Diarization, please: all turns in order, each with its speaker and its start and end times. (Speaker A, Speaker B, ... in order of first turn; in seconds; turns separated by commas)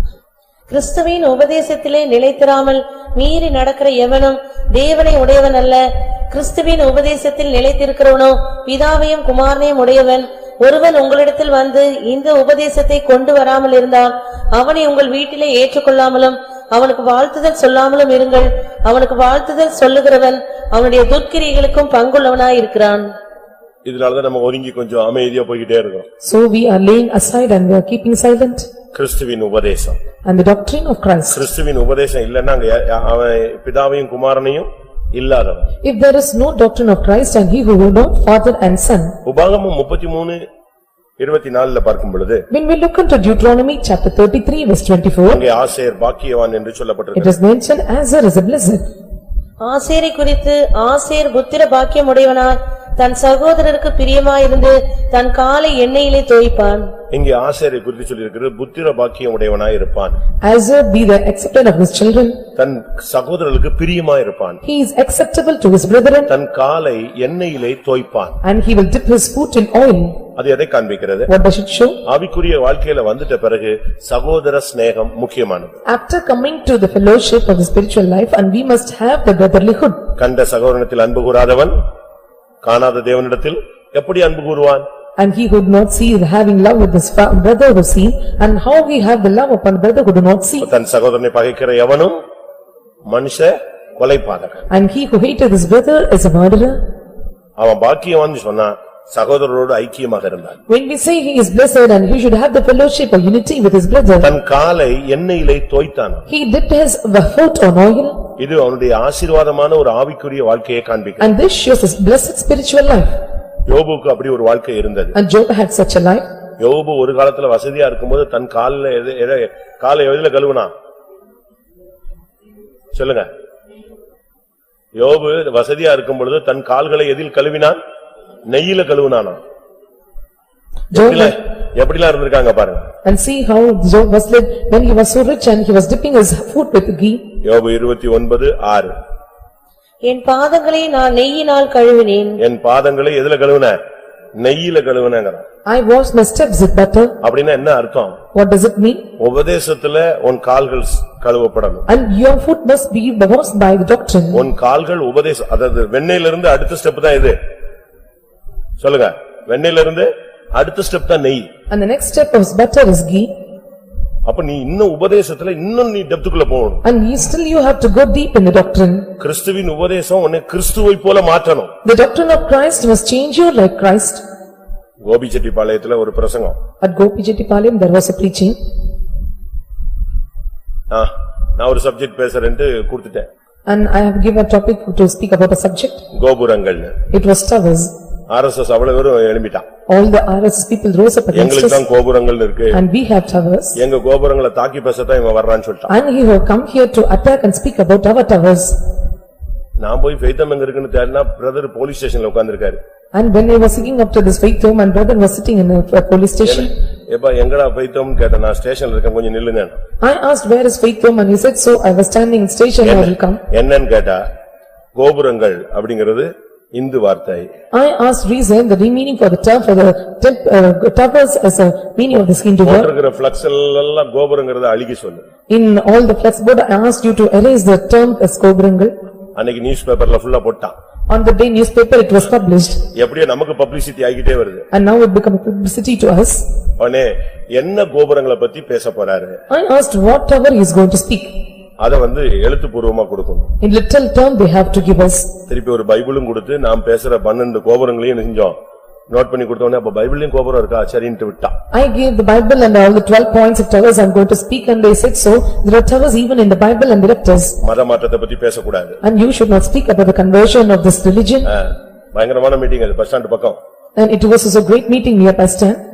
Speaker A: 0.7-23.1, Speaker B: 23.9-26.1, Speaker C: 26.2-28.7, Speaker B: 28.9-30.0, Speaker C: 30.2-31.4, Speaker B: 31.3-35.7, Speaker C: 35.8-39.2, Speaker B: 39.2-40.4, Speaker B: 41.2-42.5, Speaker C: 42.5-45.4, Speaker B: 45.3-47.4, Speaker C: 47.1-48.8, Speaker A: 49.6-56.9, Speaker B: 57.1-60.2, Speaker C: 60.4-62.4, Speaker B: 62.6-64.6, Speaker C: 64.6-66.3, Speaker B: 66.3-68.4, Speaker C: 68.4-70.2, Speaker B: 70.4-71.3, Speaker C: 71.3-72.0, Speaker B: 72.0-75.7, Speaker C: 75.9-80.1, Speaker B: 80.2-81.8, Speaker B: 82.6-84.9, Speaker C: 85.2-90.7, Speaker B: 90.6-92.2, Speaker B: 93.1-94.6, Speaker C: 94.7-96.8, Speaker B: 97.6-100.6, Speaker C: 100.7-104.3, Speaker B: 104.2-106.3, Speaker C: 106.3-108.2, Speaker B: 108.4-111.3, Speaker C: 111.2-113.1, Speaker B: 113.7-115.2, Speaker C: 115.1-116.3, Speaker B: 116.6-120.7, Speaker B: 122.9-123.3, Speaker B: 125.0-127.8, Speaker B: 128.5-129.4, Speaker C: 130.9-131.4, Speaker B: 130.9-132.9, Speaker C: 133.1-137.3, Speaker B: 137.4-138.9, Speaker A: 140.0-142.4, Speaker B: 142.4-143.8, Speaker B: 144.4-145.4, Speaker C: 145.7-147.2, Speaker B: 147.2-148.2, Speaker C: 148.3-149.1, Speaker B: 149.2-151.9, Speaker C: 151.9-154.5, Speaker B: 154.3-157.4, Speaker B: 158.8-161.5, Speaker C: 161.7-163.3, Speaker B: 164.3-166.8, Speaker C: 166.8-169.1, Speaker B: 169.2-171.7, Speaker C: 171.8-174.2, Speaker B: 175.0-176.6, Speaker C: 176.8-178.6, Speaker B: 180.9-183.3, Speaker C: 183.7-186.0, Speaker B: 186.1-187.0, Speaker C: 187.1-187.9, Speaker B: 188.3-189.7, Speaker C: 189.9-191.8, Speaker B: 191.3-192.8, Speaker C: 192.7-193.8, Speaker B: 193.8-195.9, Speaker C: 195.9-198.8, Speaker B: 199.8-202.8, Speaker C: 203.1-206.8, Speaker B: 206.4-209.8, Speaker C: 210.0-213.4, Speaker B: 212.8-214.3, Speaker B: 215.0-217.5, Speaker C: 217.7-222.9, Speaker B: 222.6-225.3, Speaker C: 225.5-228.9, Speaker B: 229.4-230.8, Speaker C: 231.1-232.8, Speaker B: 232.9-234.7, Speaker C: 234.7-236.4, Speaker B: 236.8-239.4, Speaker C: 239.5-241.3, Speaker B: 241.8-243.5, Speaker C: 243.6-245.3, Speaker B: 245.5-248.6, Speaker B: 249.1-251.6, Speaker C: 251.7-257.6, Speaker B: 257.6-259.0, Speaker C: 259.0-261.5, Speaker B: 261.5-263.6, Speaker C: 264.0-265.8